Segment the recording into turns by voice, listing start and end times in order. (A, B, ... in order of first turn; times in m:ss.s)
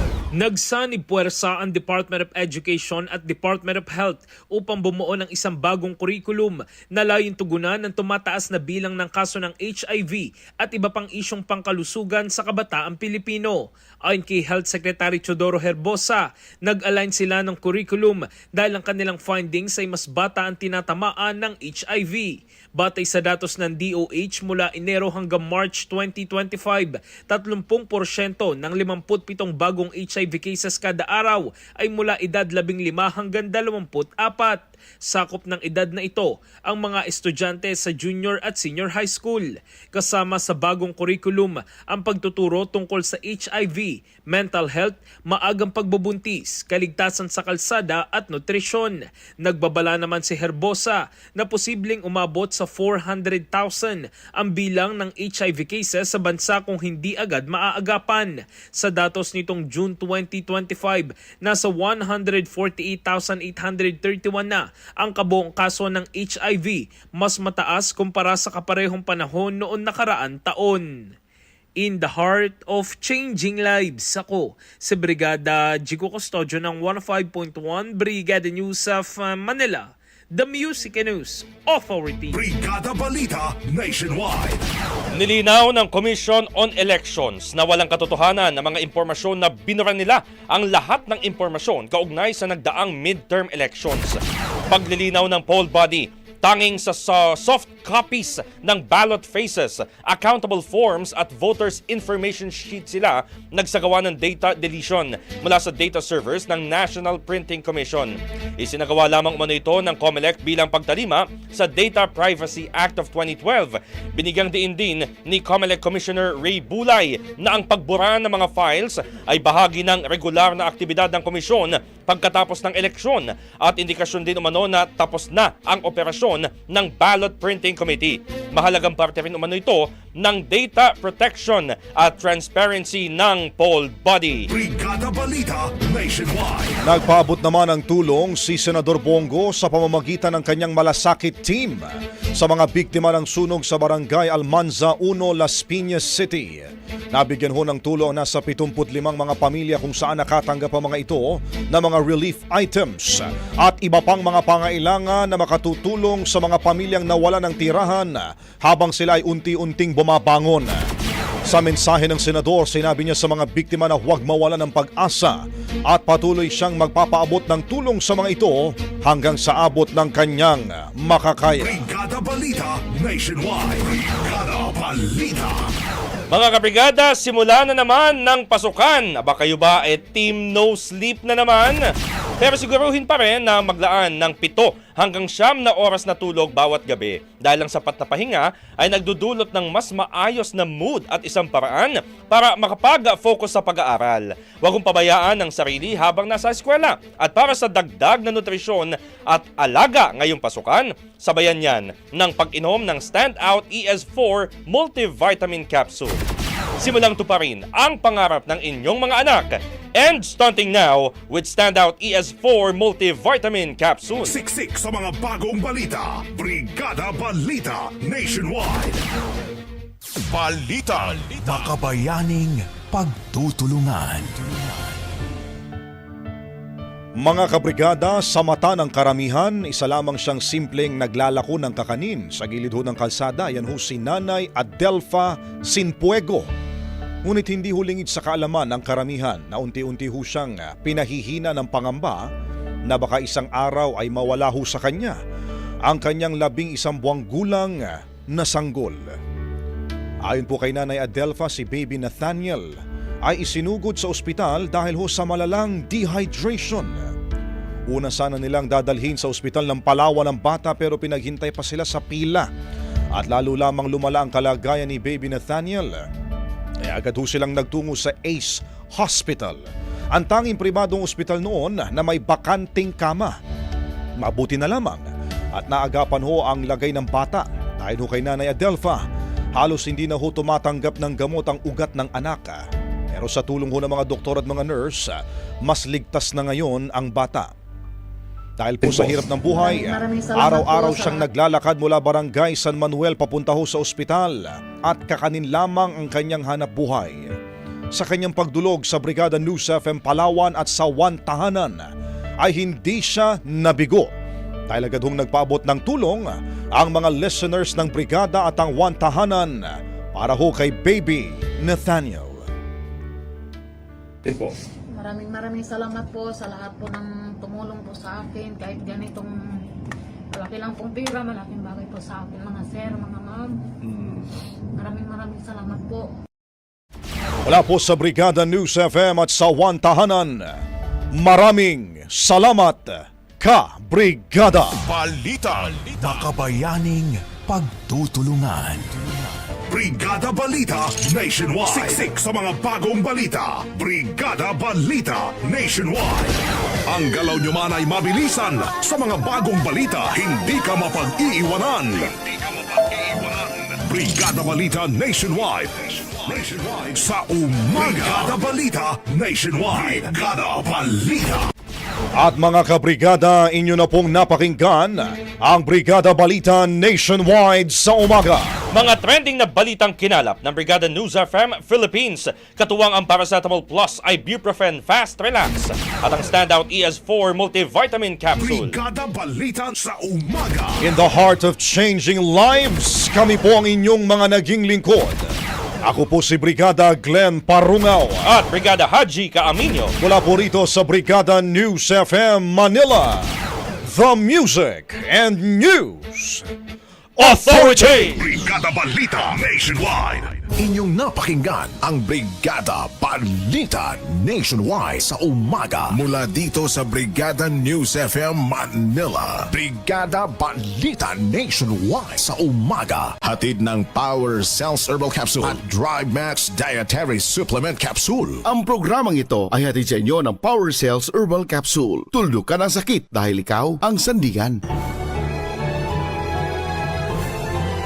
0:00.4-1:11.0 A
1:11.8-1:22.4 A
1:22.3-1:24.6 B
1:25.2-2:14.5 C
2:14.5-2:16.8 B
2:16.8-2:40.8 D
2:41.5-2:51.8 D
2:51.6-2:55.7 B
2:56.3-3:01.8 C
3:02.4-3:26.2 C
3:26.8-3:34.4 C
3:34.2-3:39.0 B
3:40.4-3:44.5 E
3:47.2-3:56.5 D
3:57.2-4:02.3 D
4:02.9-4:05.2 D
4:05.8-4:09.0 D
4:10.2-4:12.7 D
4:13.2-4:17.1 D
4:17.9-4:22.5 D
4:23.2-4:26.0 D
4:26.8-4:29.6 D
4:30.1-4:33.4 D
4:34.2-4:39.0 D
4:39.6-4:47.5 D
4:48.6-4:57.3 D
4:48.9-4:51.3 F
4:57.9-5:01.9 D
5:02.4-5:04.1 D
5:04.7-5:12.4 D
5:15.0-5:19.3 F
5:20.3-5:23.5 F
5:24.8-5:26.1 F
5:27.4-5:30.6 D
5:31.2-5:34.9 D
5:34.8-5:39.1 E
5:39.7-5:52.2 B
5:53.8-6:01.5 B
6:02.2-6:08.5 D
6:08.7-6:18.8 C
6:18.4-6:20.8 B
6:20.8-6:25.3 D
6:25.8-6:28.2 D
6:28.2-6:29.9 C
6:30.0-6:33.3 D
6:33.8-6:36.5 D
6:37.2-6:38.2 D
6:37.2-6:38.2 C
6:38.1-6:40.4 B
6:40.6-6:58.4 E
6:58.5-7:04.6 G